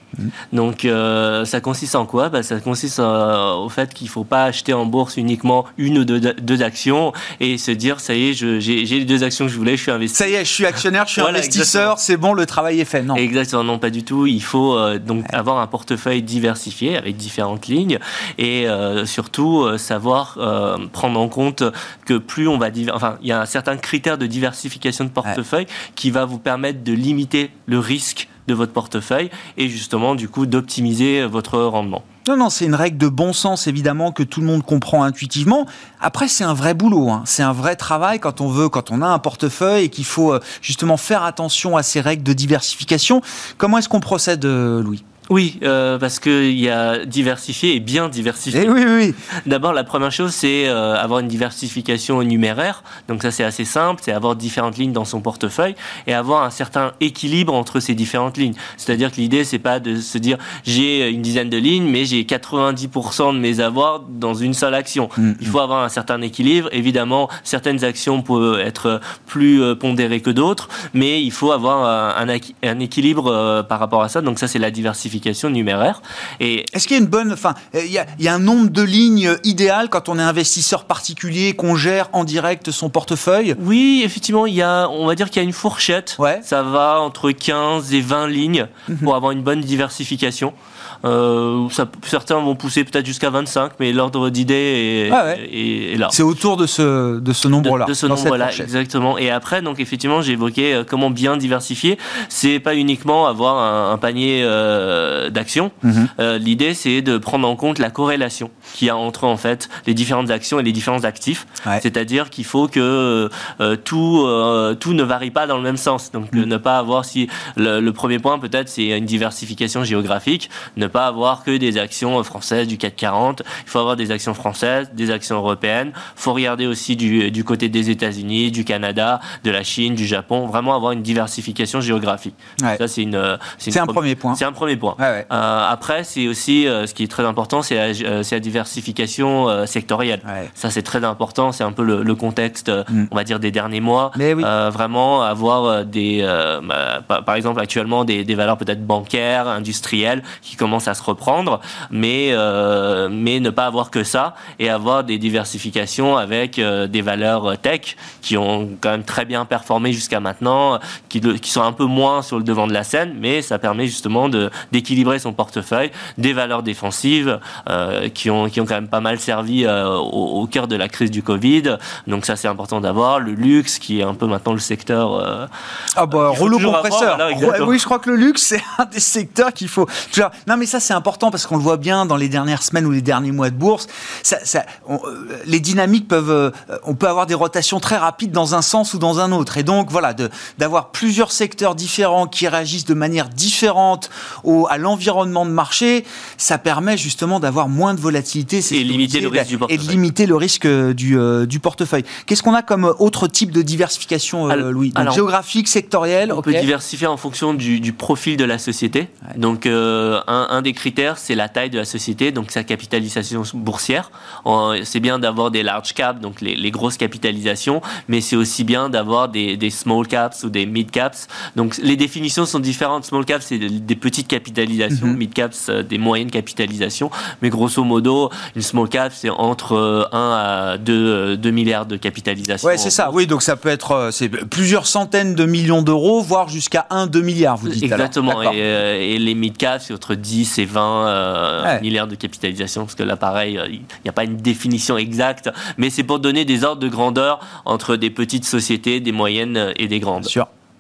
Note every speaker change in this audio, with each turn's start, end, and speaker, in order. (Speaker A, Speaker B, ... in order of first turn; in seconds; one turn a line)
Speaker A: 0.5-10.3
Speaker B: 10.1-13.2
Speaker A: 11.2-11.9
Speaker A: 13.1-32.0
Speaker B: 32.2-45.0
Speaker A: 45.3-48.7
Speaker B: 48.5-49.2
Speaker A: 49.5-76.7
Speaker B: 65.2-65.5
Speaker B: 76.7-83.6
Speaker A: 83.6-96.1
Speaker B: 86.2-86.5
Speaker B: 95.1-95.4
Speaker B: 96.1-98.7
Speaker A: 97.6-175.5
Speaker B: 105.8-106.1
Speaker B: 133.7-134.4
Speaker B: 135.0-135.3
Speaker B: 140.3-140.5
Speaker B: 144.1-144.5
Speaker B: 175.9-206.7
Speaker A: 176.1-177.8
Speaker A: 198.7-200.0
Speaker A: 204.5-205.2
Speaker A: 206.3-233.1
Speaker B: 224.9-225.2
Speaker B: 232.6-238.6
Speaker A: 237.7-250.3
Speaker B: 250.2-250.5